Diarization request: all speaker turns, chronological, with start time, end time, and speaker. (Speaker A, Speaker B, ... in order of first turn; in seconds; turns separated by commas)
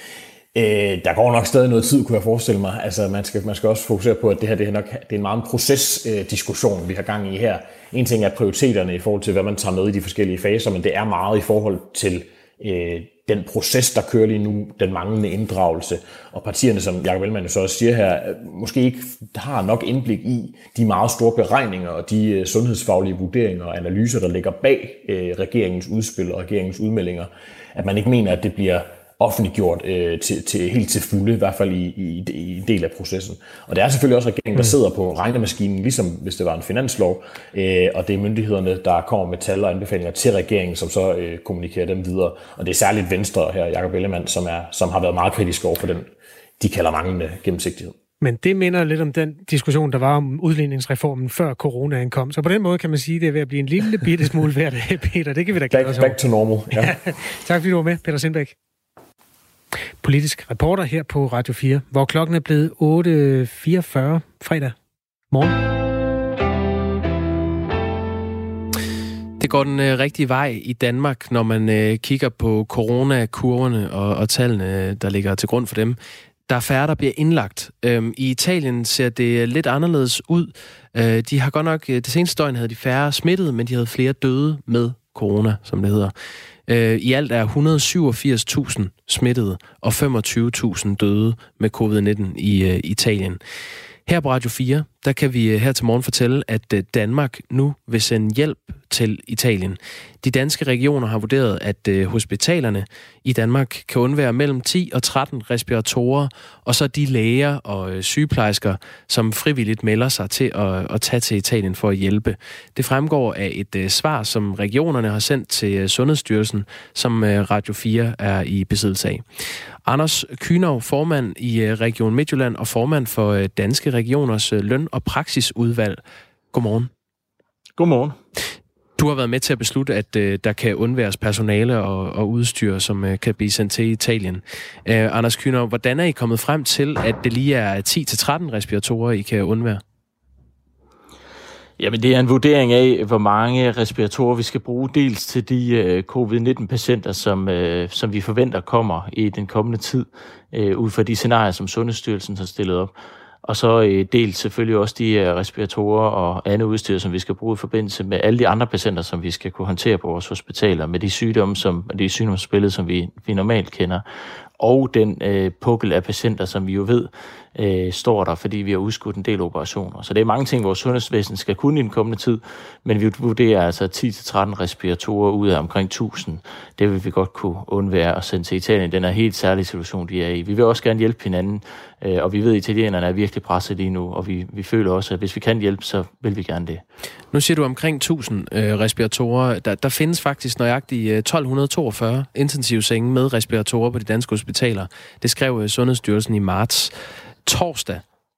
Speaker A: 0.6-48.0, Speaker B: 48.2-56.2, Speaker A: 55.7-57.0, Speaker B: 56.8-58.5, Speaker B: 60.0-64.7, Speaker B: 65.3-65.6, Speaker C: 69.4-86.1, Speaker C: 86.7-93.4, Speaker C: 94.0-119.2, Speaker C: 119.8-126.0, Speaker C: 126.5-126.9, Speaker D: 127.8-128.2, Speaker C: 129.0-139.8, Speaker D: 141.8-164.1, Speaker D: 164.6-186.8, Speaker C: 187.3-198.0